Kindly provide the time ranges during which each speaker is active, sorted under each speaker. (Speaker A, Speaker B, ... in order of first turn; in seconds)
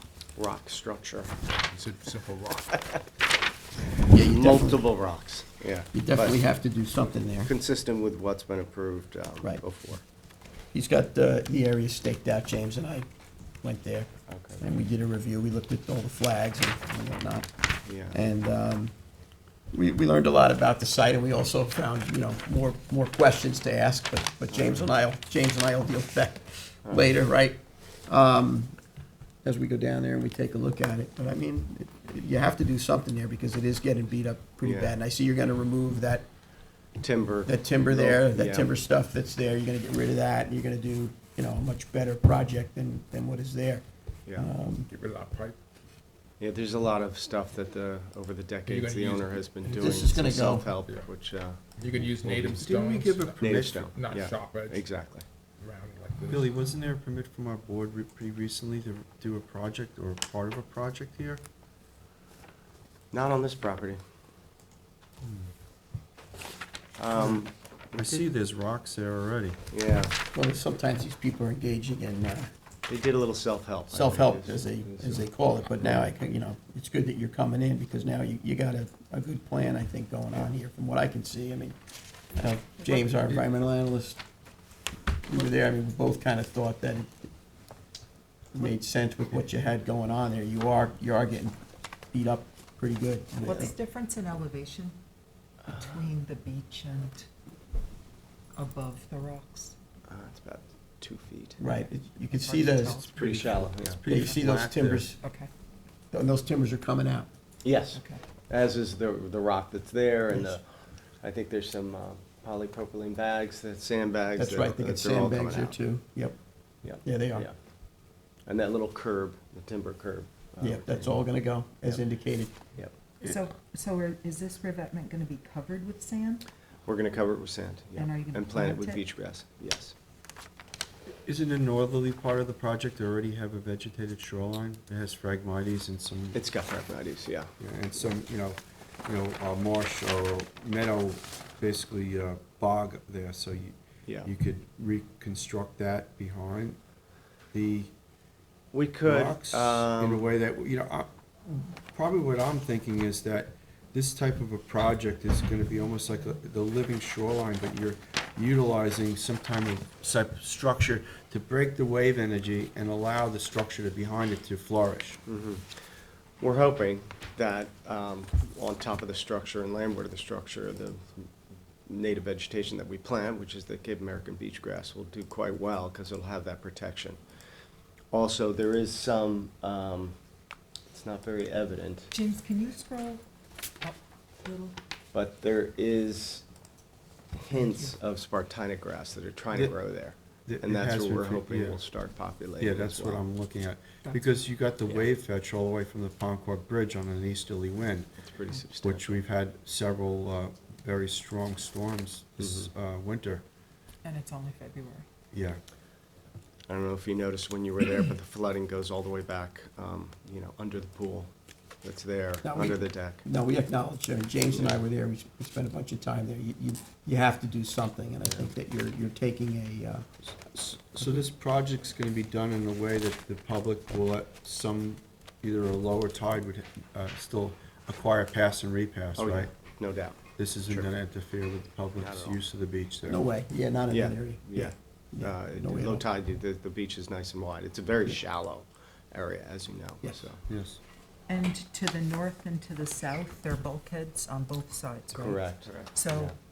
Speaker A: 0.3-1.4, 4.0-6.4, 7.4-10.0, 14.3-14.6, 17.8-18.2, 24.5-24.9, 26.8-27.2, 34.6-34.9, 37.0-38.7, 46.4-52.6, 53.4-55.2, 63.1-64.0, 67.0-68.2, 69.7-70.1, 72.9-75.3, 93.5-93.7, 95.7-96.0, 100.1-101.6, 103.1-104.0, 107.6-110.7, 111.2-115.7, 116.8-117.5, 118.5-121.2, 126.8-129.9, 136.3-137.5, 148.7-150.3, 165.3-165.7, 166.4-171.3, 171.8-177.2, 178.1-180.2, 180.9-182.1, 185.1-186.4, 187.3-193.2, 198.2-199.2, 202.4-202.7, 206.7-213.2, 229.2-230.9, 232.0-232.4, 233.9-240.4, 245.1-246.3
Speaker B: 1.5-2.7, 44.9-45.6, 48.7-50.3, 50.9-51.1, 51.8-54.9, 55.6-56.5
Speaker C: 4.1-4.8, 5.9-7.5, 10.7-13.1, 13.6-14.1, 14.6-17.5, 18.1-18.9, 19.7-28.7, 29.4-36.3, 37.5-43.8, 44.3-44.9, 49.7-50.7, 70.3-72.5, 73.9-81.8, 82.3-84.2, 85.3-87.3, 88.5-91.5, 92.1-93.7, 101.6-103.1, 104.0-105.2, 106.1-107.3, 110.3-110.6, 114.4-116.4, 117.0-117.5, 120.6-122.5, 212.4-220.4, 221.0-221.2, 233.1-236.0
Speaker D: 52.5-53.9, 56.3-61.4, 65.2-65.5, 67.1-69.6, 104.0-105.1, 131.2-136.4, 137.6-146.8, 147.5-147.9, 149.0-165.2, 190.5-191.8, 192.6-198.1, 198.8-203.4, 205.3-205.6, 220.6-229.5, 230.3-233.2, 240.5-240.8
Speaker E: 82.8-83.2, 93.4-95.0, 95.7-97.3, 98.5-99.8, 101.6-104.5, 105.2-105.5, 107.9-108.2, 123.2-126.4, 127.9-129.0, 182.1-183.2, 183.8-184.8, 187.5-187.9, 194.0-194.3, 204.0-205.1, 241.3-246.3